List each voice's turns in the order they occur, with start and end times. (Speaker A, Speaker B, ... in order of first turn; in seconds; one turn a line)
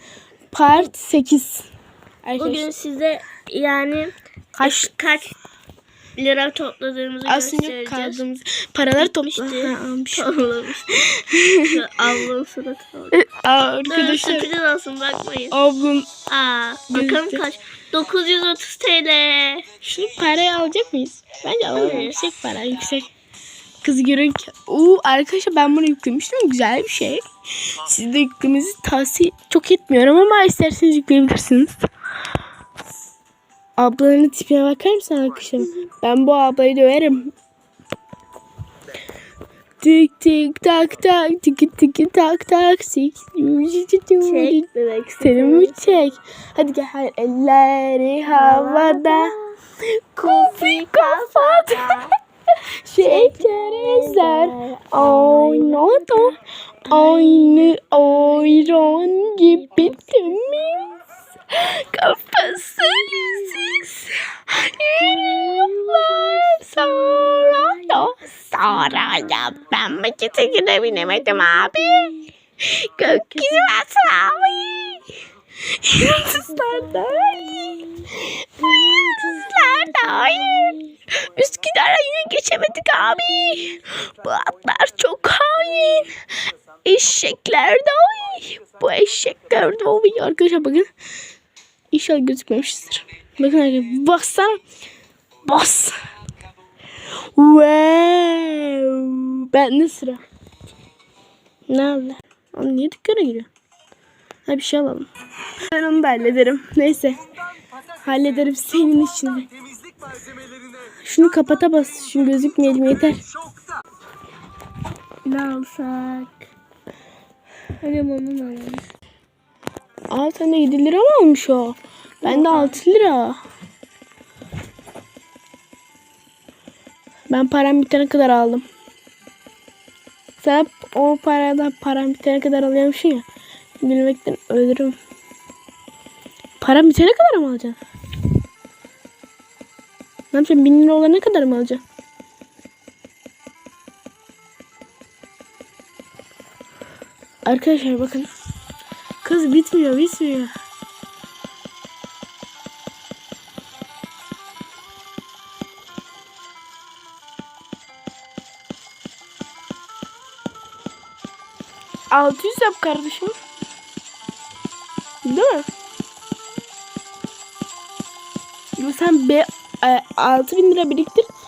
Speaker A: 0.5-1.7
Speaker A: 2.2-2.7
Speaker B: 2.4-5.3
Speaker A: 4.5-4.9
Speaker B: 6.2-8.2
Speaker A: 7.2-10.3
Speaker B: 8.9-11.1
Speaker A: 10.9-11.8
Speaker B: 11.6-13.2
Speaker A: 13.1-14.5
Speaker B: 13.9-15.6
Speaker A: 15.5-16.1
Speaker B: 16.3-19.6
Speaker A: 16.9-17.4
Speaker A: 19.8-23.1
Speaker B: 21.7-22.3
Speaker A: 23.8-31.9
Speaker A: 33.8-37.3
Speaker A: 39.8-44.7
Speaker B: 44.2-46.0
Speaker A: 45.2-49.3
Speaker B: 48.3-49.6
Speaker A: 50.1-52.1
Speaker B: 50.2-52.1
Speaker A: 52.8-60.8
Speaker B: 53.0-61.0
Speaker A: 61.5-75.1
Speaker B: 62.8-63.9
Speaker B: 65.0-69.8
Speaker B: 70.4-72.3
Speaker B: 73.3-73.9
Speaker A: 75.7-77.4
Speaker B: 76.0-80.9
Speaker A: 78.1-86.1
Speaker A: 86.8-90.9
Speaker A: 91.9-94.6
Speaker A: 95.5-96.0
Speaker A: 97.3-100.2
Speaker A: 101.7-103.5
Speaker A: 104.5-107.3
Speaker A: 108.0-109.5
Speaker A: 111.0-113.2
Speaker B: 115.2-116.5
Speaker B: 117.8-118.9
Speaker A: 120.1-123.4
Speaker B: 122.2-122.8
Speaker A: 127.3-128.6
Speaker A: 130.4-133.2
Speaker A: 133.8-134.9
Speaker A: 136.6-137.8
Speaker A: 140.3-141.8
Speaker A: 147.4-148.3
Speaker A: 149.2-150.5
Speaker A: 162.1-163.4
Speaker A: 165.2-165.7
Speaker A: 168.8-171.3